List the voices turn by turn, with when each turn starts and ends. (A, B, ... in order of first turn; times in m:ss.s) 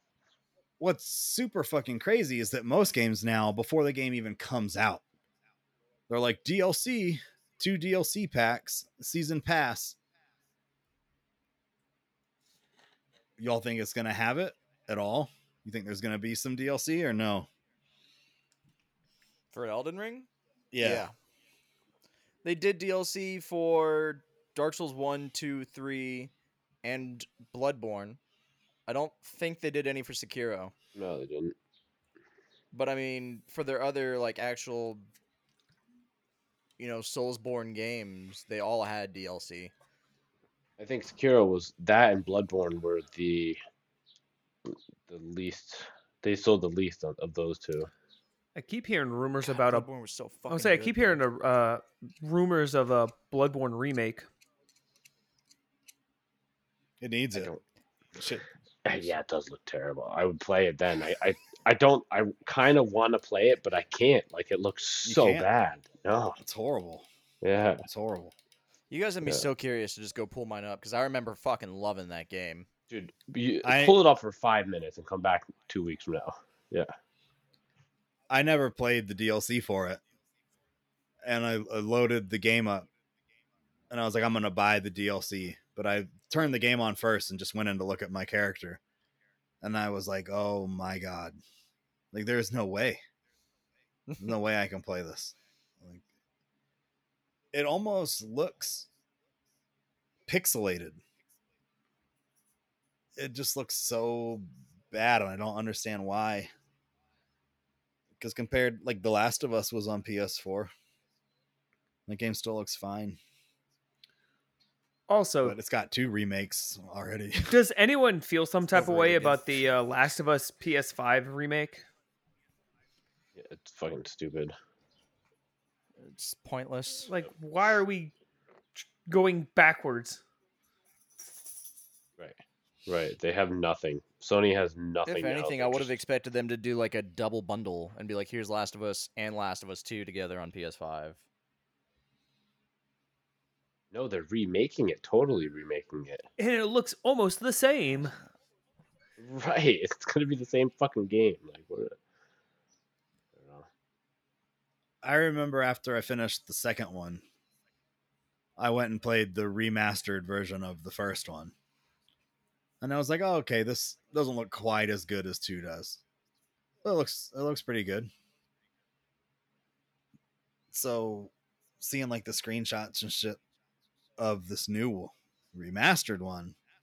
0:00.8-0:05.0 A
0:06.1-0:10.0 A
0:13.4-0:17.5 A
0:19.5-0:20.3 B
0:20.7-0:21.1 A
0:20.8-0:21.1 B
0:22.4-0:26.3 B
0:26.8-0:28.2 B
0:28.9-0:30.7 B
0:30.9-0:31.5 C
0:32.7-0:35.0 B
0:36.8-0:39.7 B
0:40.8-0:43.6 C
0:44.6-0:47.9 C
0:48.5-0:49.8 D
0:49.4-0:51.2 B
0:50.5-0:54.2 D
0:57.0-0:57.5 A
0:57.3-0:57.6 C
0:58.2-0:58.4 A
0:58.8-1:06.4 C
1:05.0-1:05.5 A
1:06.4-1:07.0 A
1:07.4-1:07.8 C
1:07.8-1:08.3 A
1:08.9-1:12.7 B
1:12.9-1:16.9 C
1:13.6-1:14.0 A
1:18.3-1:20.0 A
1:21.2-1:22.9 A
1:23.9-1:28.8 A
1:29.6-1:31.4 A
1:32.1-1:33.0 A
1:34.1-1:34.3 B
1:34.2-1:36.0 A
1:37.5-1:38.9 A
1:40.3-1:41.0 A
1:43.2-1:46.5 A
1:48.2-1:50.7 A
1:52.1-1:53.2 A
1:55.1-1:55.6 D
1:55.4-1:57.5 A
1:57.5-2:01.8 D
1:58.7-1:59.4 B
2:03.4-2:04.5 C
2:06.0-2:07.1 B
2:07.1-2:08.1 D
2:08.8-2:10.2 D
2:12.2-2:15.9 C
2:15.0-2:21.2 B
2:23.9-2:26.2 C
2:26.4-2:28.1 D
2:29.2-2:32.0 C
2:33.3-2:33.7 C
2:35.0-2:37.2 A
2:38.6-2:41.5 A
2:42.8-2:46.0 A
2:46.8-2:48.1 A
2:50.7-2:53.4 A
2:54.2-2:56.6 A